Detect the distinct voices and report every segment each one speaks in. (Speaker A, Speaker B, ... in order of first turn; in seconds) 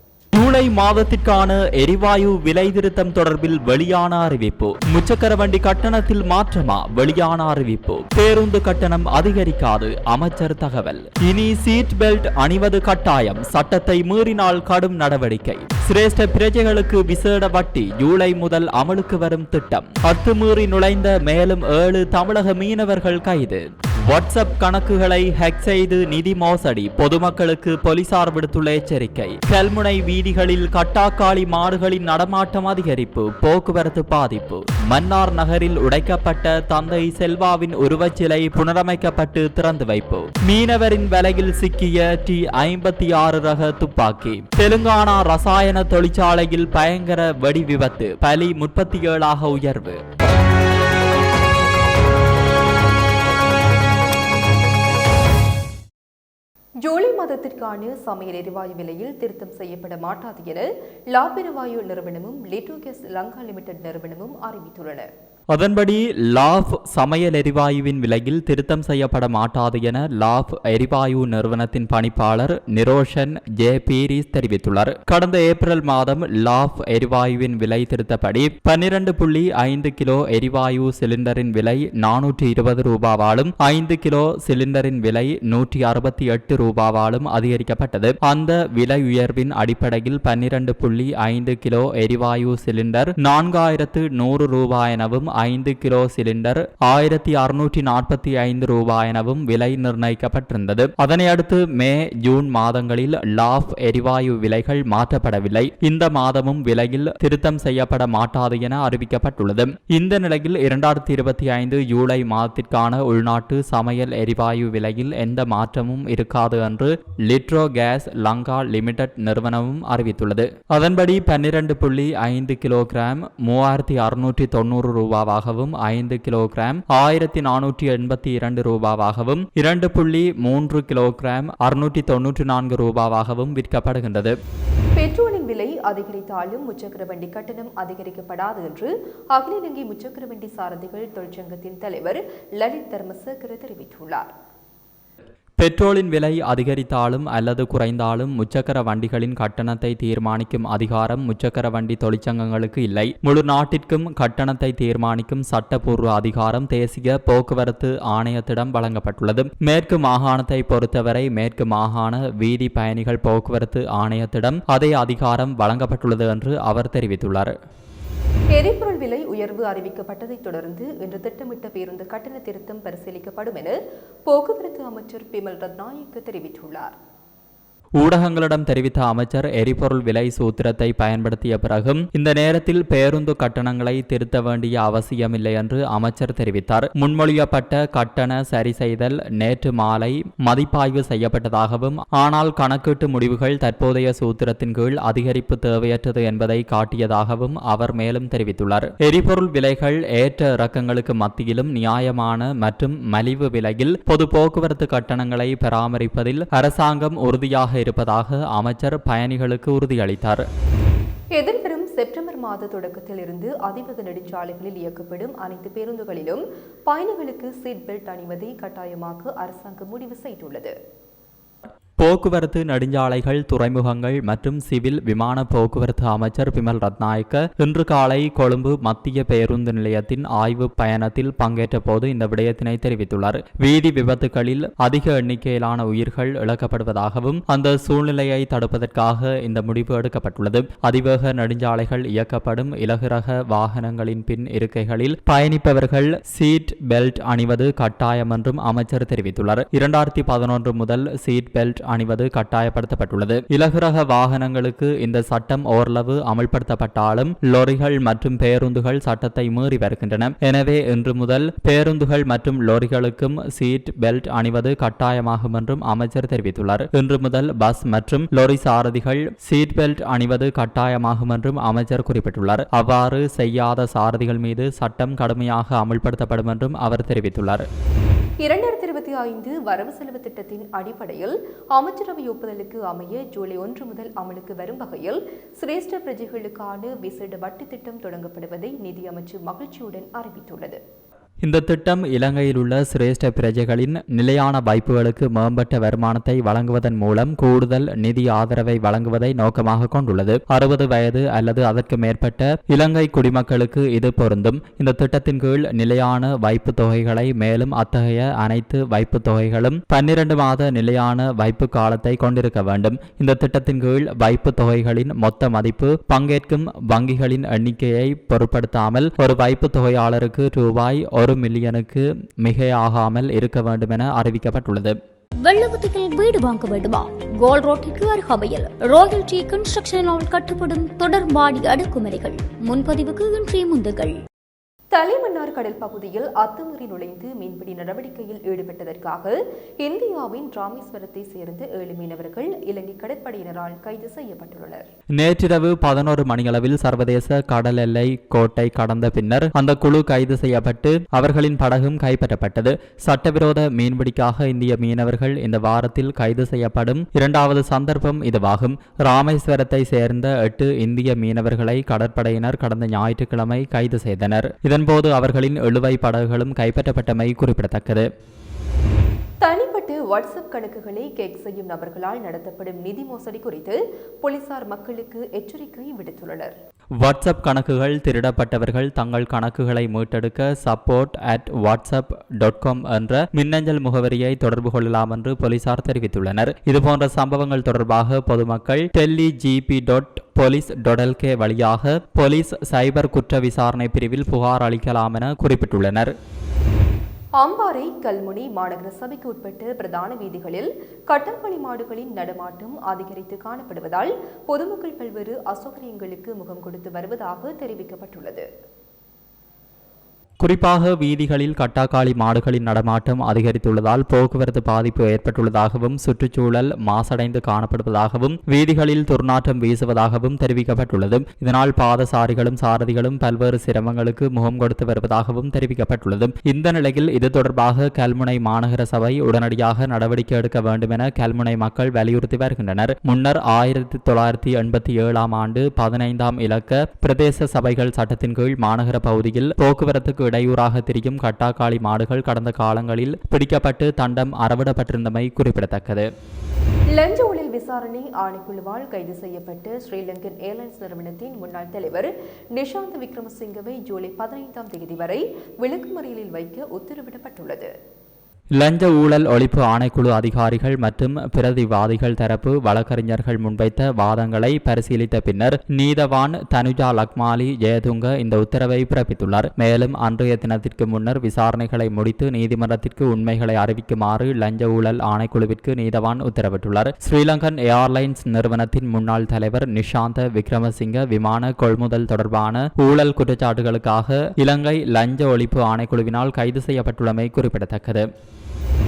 Speaker A: 0.3-50.0, 65.5-134.3, 145.6-167.5, 178.0-210.4, 222.0-277.6, 291.4-324.9, 345.2-368.1, 377.0-396.1, 410.4-446.1, 458.6-488.1
Speaker B: 56.8-65.1, 135.0-144.3, 168.5-173.8, 174.3-176.9, 211.3-220.7, 278.4-290.8, 334.9-344.9, 369.4-376.5, 397.4-408.4, 446.9-457.7
Speaker C: 325.4-334.2